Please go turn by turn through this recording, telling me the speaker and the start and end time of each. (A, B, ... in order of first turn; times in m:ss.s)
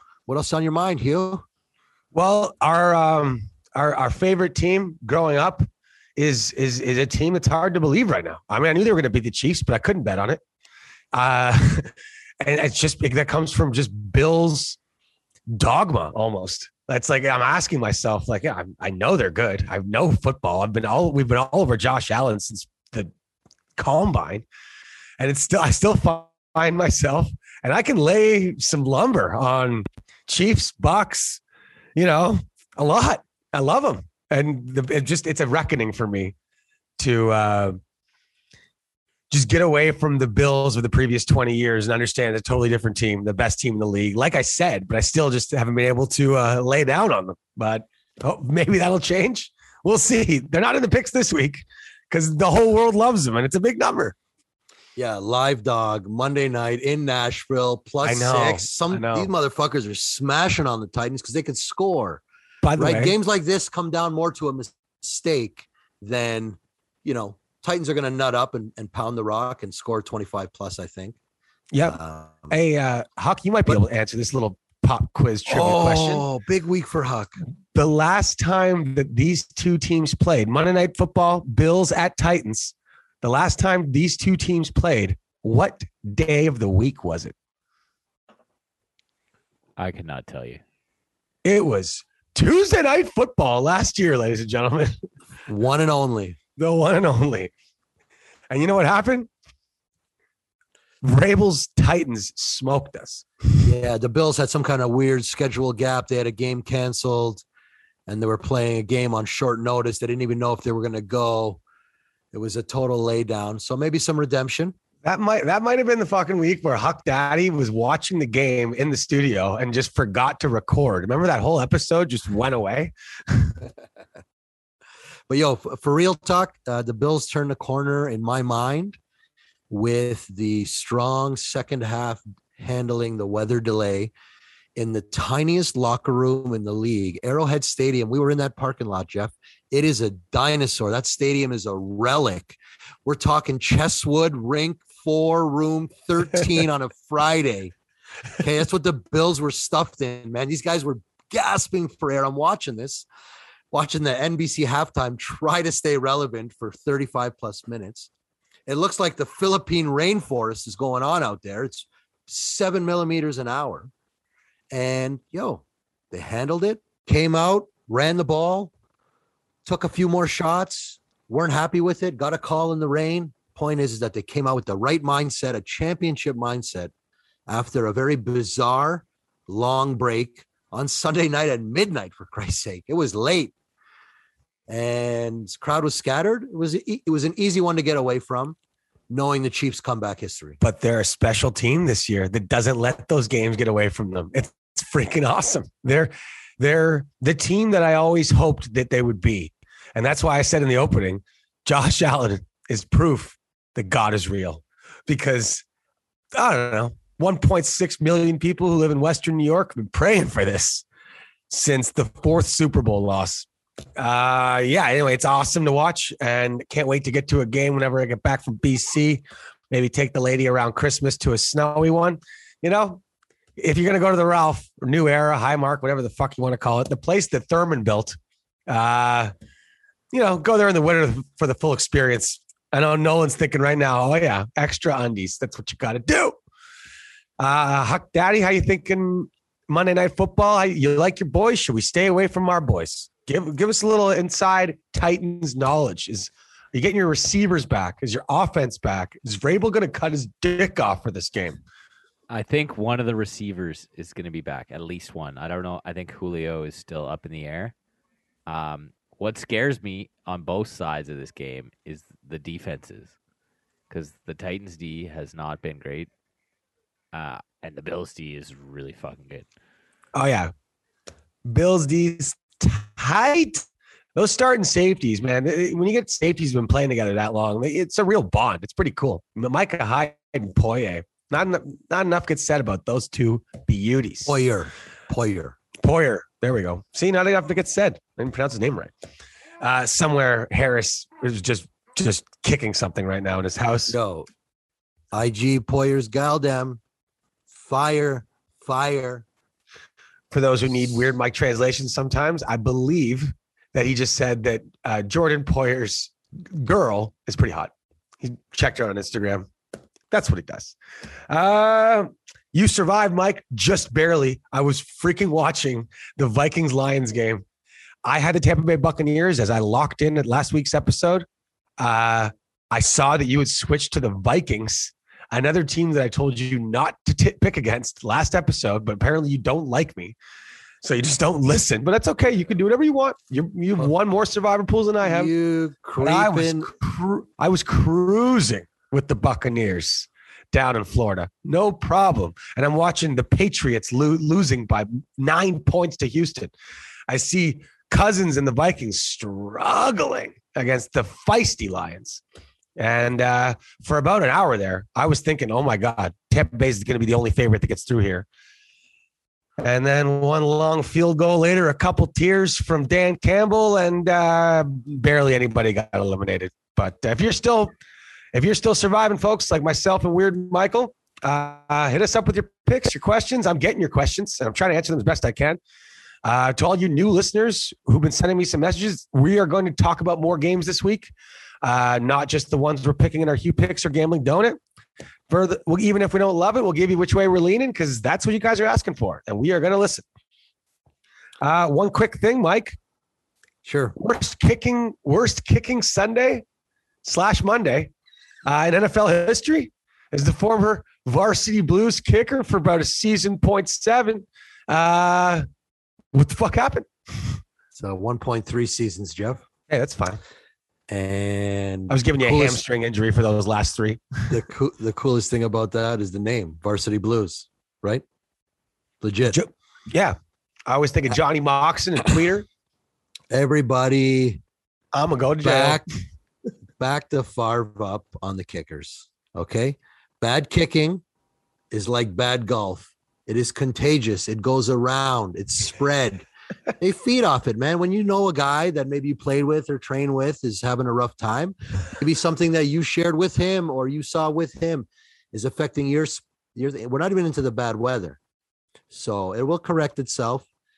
0:00.3-0:01.4 A
0:02.1-0:10.4 B
0:11.1-0:11.9 B
0:12.4-0:14.8 B
0:15.5-0:23.1 B
0:23.8-0:24.4 B
0:25.2-0:31.4 B
0:32.0-0:36.4 B
0:37.0-0:37.8 B
0:39.3-0:54.2 B
0:55.0-1:02.2 A
0:58.0-0:59.3 B
1:02.6-1:03.2 B
1:02.8-1:11.2 A
1:11.7-1:12.0 B
1:11.9-1:12.6 A
1:12.5-1:16.2 B
1:15.5-1:17.4 A
1:17.7-1:27.4 B
1:29.8-1:30.6 C
1:31.4-1:35.0 B
1:35.5-1:36.4 A
1:36.6-1:37.5 B
1:38.5-1:39.3 B
1:41.0-1:43.2 B
1:43.6-1:47.4 A
1:48.1-1:51.6 A
1:52.3-1:54.8 A
1:55.0-2:03.6 B
2:05.3-2:09.0 A
2:09.7-2:14.1 A
2:14.8-2:27.7 A
2:28.4-2:33.1 A
2:33.7-2:38.1 A
2:38.7-2:43.9 A
2:44.7-2:48.7 A
2:49.6-2:56.9 A
2:57.5-3:03.5 A
3:04.7-3:08.6 A
3:09.1-3:10.6 A
3:10.6-3:25.6 B
3:26.3-3:30.8 B
3:31.5-3:43.0 B
3:43.6-3:49.3 B
3:50.1-3:56.4 B
3:57.4-4:11.6 B
4:12.3-4:17.7 C
4:18.5-4:23.2 C
4:23.9-4:26.1 C
4:27.1-4:29.5 C
4:30.1-4:30.5 B
4:31.5-4:33.6 B
4:34.2-4:44.4 B
4:44.3-4:45.6 A
4:45.8-4:48.9 B
4:49.6-4:54.0 B
4:53.9-4:54.3 A
4:55.1-4:56.8 A
4:57.5-4:59.2 A
5:00.3-5:09.5 B
5:10.1-5:10.8 B
5:11.3-5:17.4 B
5:18.0-5:21.2 B
5:21.8-5:30.2 B
5:30.8-5:35.3 B
5:35.0-5:36.7 A
5:36.0-5:46.5 B
5:47.1-5:52.2 B
5:52.8-5:58.3 B
5:59.6-6:07.7 B
6:08.3-6:15.6 B
6:16.2-6:24.6 B
6:25.3-6:30.0 B
6:31.4-6:32.8 B
6:33.6-6:33.9 A
6:34.0-6:36.4 B
6:37.0-6:37.9 B
6:38.5-6:45.4 B
6:46.1-6:47.4 B
6:47.7-6:49.4 A
6:49.7-6:50.2 B
6:50.9-6:52.6 A
6:51.9-6:54.3 B
6:54.3-6:58.0 A
6:59.0-6:59.4 A
6:59.3-7:00.2 B
7:00.7-7:02.5 B
7:03.3-7:04.4 A
7:04.9-7:05.8 B
7:05.4-7:05.8 A
7:06.8-7:11.0 A
7:11.7-7:28.2 A
7:28.9-7:30.5 A